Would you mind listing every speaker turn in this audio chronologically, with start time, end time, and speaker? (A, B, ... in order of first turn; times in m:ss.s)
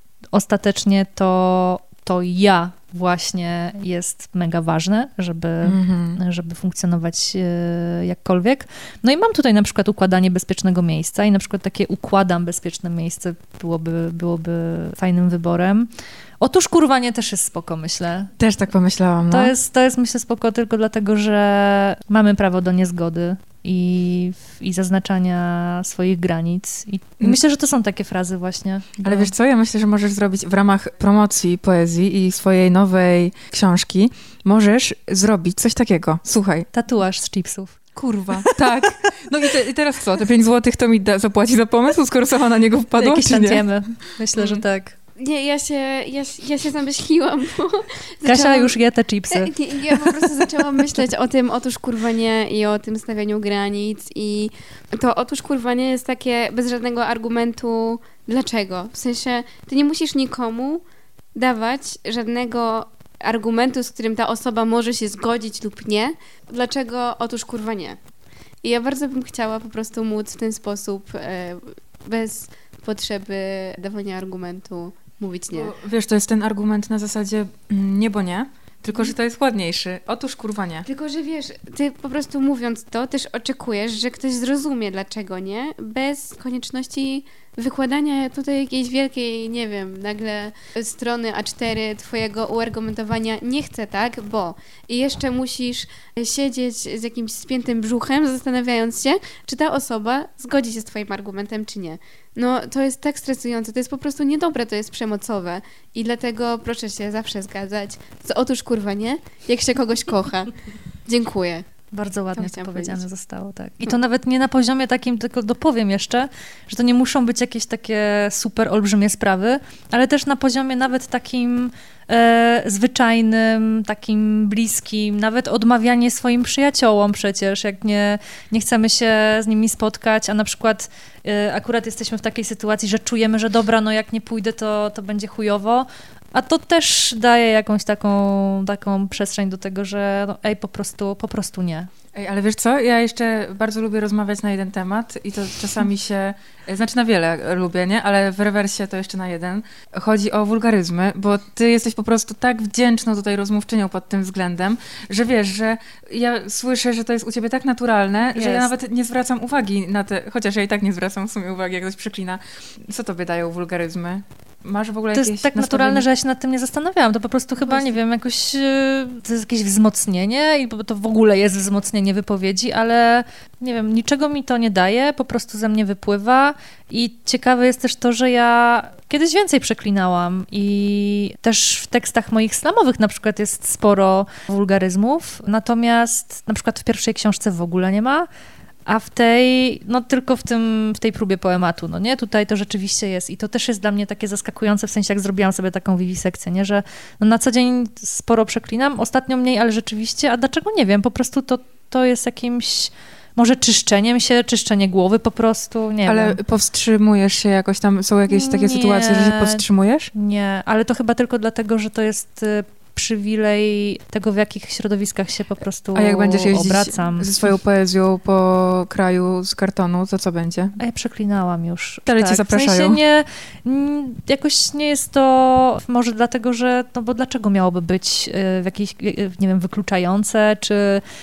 0:00.3-0:15.9 A
0:05.6-0:06.2 B
0:16.4-0:18.3 A
0:18.4-0:19.6 B
0:19.3-0:29.3 A
0:29.0-0:36.7 B
0:36.7-0:37.8 A
0:38.0-0:43.6 B
0:38.3-0:38.8 A
0:43.0-0:45.0 A
0:44.4-0:44.6 B
0:45.2-0:48.8 C
0:48.2-0:50.3 A
0:49.3-1:00.8 C
1:01.4-1:08.0 C
1:08.6-1:15.7 C
1:15.5-1:20.9 B
1:20.9-1:50.5 C
1:51.1-1:51.7 C
1:51.9-2:21.9 A
1:52.4-1:53.0 C
2:22.1-2:46.1 B
2:38.3-2:38.7 A
2:45.1-3:08.3 A
2:47.7-2:47.9 B
3:08.9-3:26.4 A
3:26.1-3:30.1 B
3:28.3-3:37.6 A
3:36.0-3:40.8 B
3:40.8-3:51.0 A
3:42.1-3:43.0 B